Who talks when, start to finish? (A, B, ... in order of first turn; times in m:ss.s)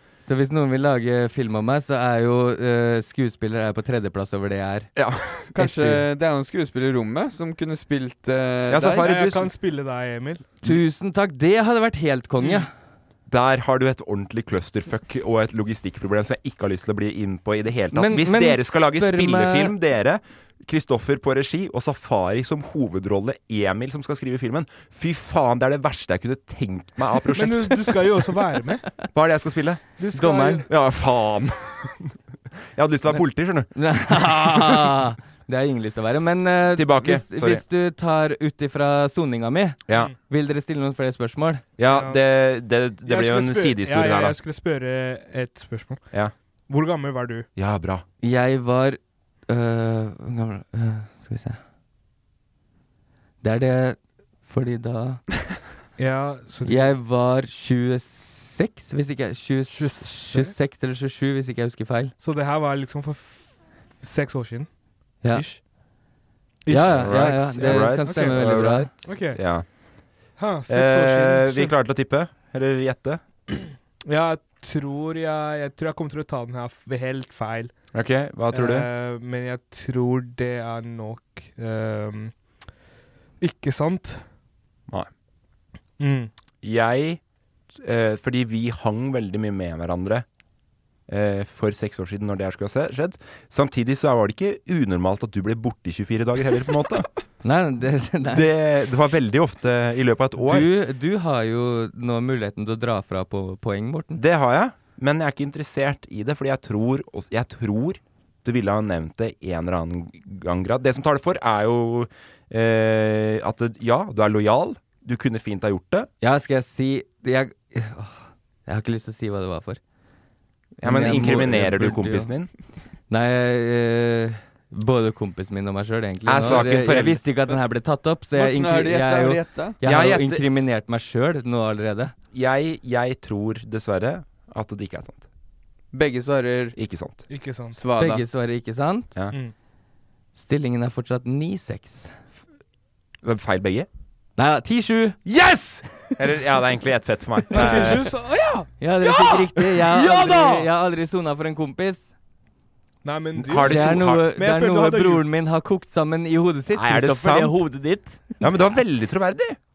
0:00.2-0:04.9 A
0:05.0-0:05.5 B
0:05.5-0:06.0 A
0:05.5-0:09.0 C
0:08.7-0:09.5 B
0:09.0-0:10.5 D
0:10.6-0:12.7 A
0:13.3-0:28.0 B
0:17.9-0:19.7 A
0:27.3-0:28.9 D
0:29.1-0:29.8 B
0:30.0-0:30.7 D
0:30.1-0:30.7 A
0:30.7-0:32.1 B
0:32.7-0:34.9 B
0:33.7-0:41.6 A
0:36.8-0:37.6 B
0:41.8-0:44.4 B
0:41.9-0:42.2 D
0:43.0-0:46.0 D
0:46.7-0:47.5 D
0:47.6-0:48.0 B
0:48.2-0:51.6 A
0:53.4-0:55.2 A
0:56.0-0:56.9 D
0:56.6-1:02.1 A
0:59.7-1:00.5 D
1:02.2-1:04.7 D
1:05.2-1:05.6 D
1:06.6-1:08.4 D
1:06.7-1:08.9 A
1:06.9-1:09.6 B
1:09.0-1:09.4 D
1:10.4-1:11.7 D
1:10.7-1:13.2 B
1:14.0-1:17.7 D
1:17.9-1:18.9 B
1:18.5-1:22.3 D
1:23.4-1:24.2 D
1:26.0-1:26.3 D
1:26.6-1:27.2 B
1:27.7-1:30.2 B
1:31.1-1:37.1 B
1:37.4-1:38.4 A
1:38.3-1:40.7 B
1:40.4-1:44.2 A
1:44.2-1:56.1 B
1:56.2-1:59.8 A
2:00.8-2:02.5 B
2:00.8-2:02.3 A
2:03.1-2:12.1 A
2:06.2-2:07.2 B
2:08.3-2:09.8 C
2:09.8-2:10.4 B
2:12.3-2:15.2 B
2:15.9-2:16.8 C
2:16.8-2:17.2 B
2:17.3-2:17.8 D
2:17.7-2:18.2 C
2:18.0-2:19.1 A
2:20.4-2:22.1 A
2:23.2-2:23.9 B
2:24.4-2:25.2 A
2:25.2-2:28.0 B
2:27.5-2:29.4 D
2:28.8-2:32.1 A
2:29.8-2:30.6 B
2:33.0-2:35.2 D
2:33.4-2:34.2 B
2:33.6-2:38.5 A
2:36.7-2:37.6 B
2:38.4-2:39.6 B